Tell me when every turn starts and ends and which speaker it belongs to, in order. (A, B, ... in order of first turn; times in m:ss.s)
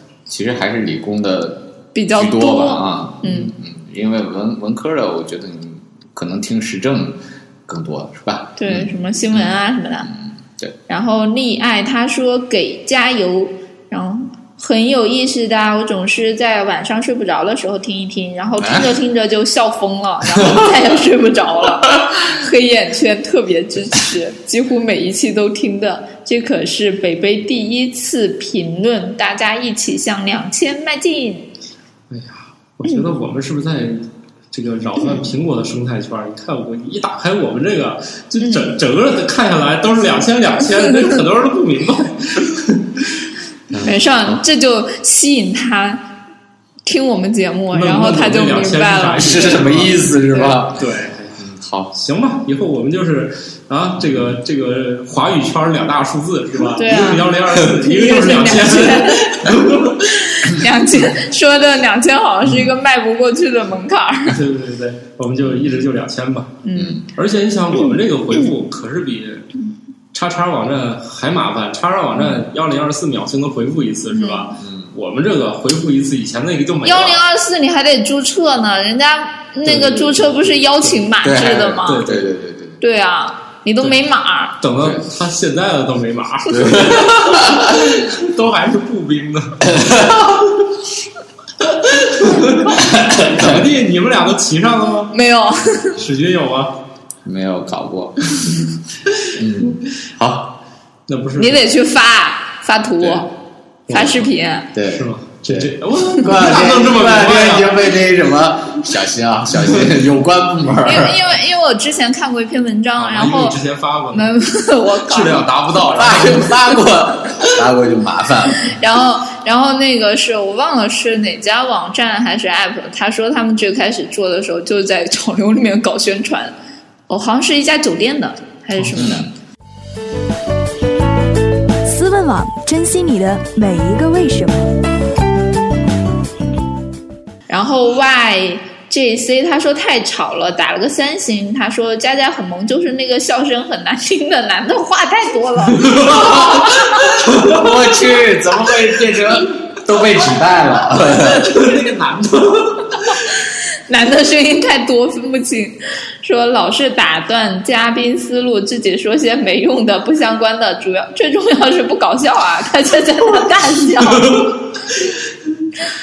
0:00.3-0:10.7 A
0:01.9-0:03.5 B
0:08.6-0:10.1 B
0:10.9-0:31.5 B
0:18.6-0:18.9 A
0:20.3-0:20.8 A
0:32.1-0:43.2 C
0:38.4-0:38.7 B
0:43.7-0:44.4 A
0:43.8-0:46.1 B
0:46.8-0:49.6 B
0:47.7-1:00.2 C
0:49.2-0:50.8 A
0:51.4-0:51.9 A
0:54.0-0:54.4 A
0:56.8-0:59.5 B
0:56.9-0:57.2 A
1:00.2-1:04.4 B
1:04.3-1:06.6 C
1:05.5-1:05.8 A
1:06.6-1:07.0 B
1:06.7-1:07.1 A
1:07.1-1:09.5 C
1:10.1-1:17.2 C
1:12.2-1:12.4 A
1:14.1-1:14.5 B
1:14.6-1:14.9 A
1:16.8-1:22.0 B
1:19.6-1:21.0 C
1:21.2-1:22.8 A
1:21.8-1:22.3 C
1:22.8-1:24.6 B
1:24.6-1:29.7 C
1:24.8-1:25.0 A
1:26.5-1:27.9 A
1:29.6-1:30.5 A
1:31.7-1:35.1 C
1:32.7-1:33.7 A
1:35.1-1:36.0 B
1:36.0-1:36.8 C
1:37.2-1:38.6 A
1:39.3-1:40.6 A
1:41.1-1:41.6 C
1:41.4-1:43.4 B
1:43.0-1:43.3 A
1:43.9-1:44.3 C
1:43.9-1:44.7 B
1:44.7-1:51.2 A
1:44.9-1:47.8 C
1:50.8-1:53.6 B
1:53.0-1:54.4 C
1:54.1-1:55.5 B
1:55.0-1:56.6 C
1:55.9-1:58.7 A
1:58.6-2:06.6 B
2:07.1-2:09.3 B
2:08.9-2:09.3 A
2:11.8-2:14.7 D
2:17.5-2:27.1 B
2:26.2-2:26.6 A
2:27.2-2:31.6 A
2:27.3-2:27.6 C
2:31.0-2:33.1 C
2:33.9-2:44.5 B
2:44.1-2:45.1 C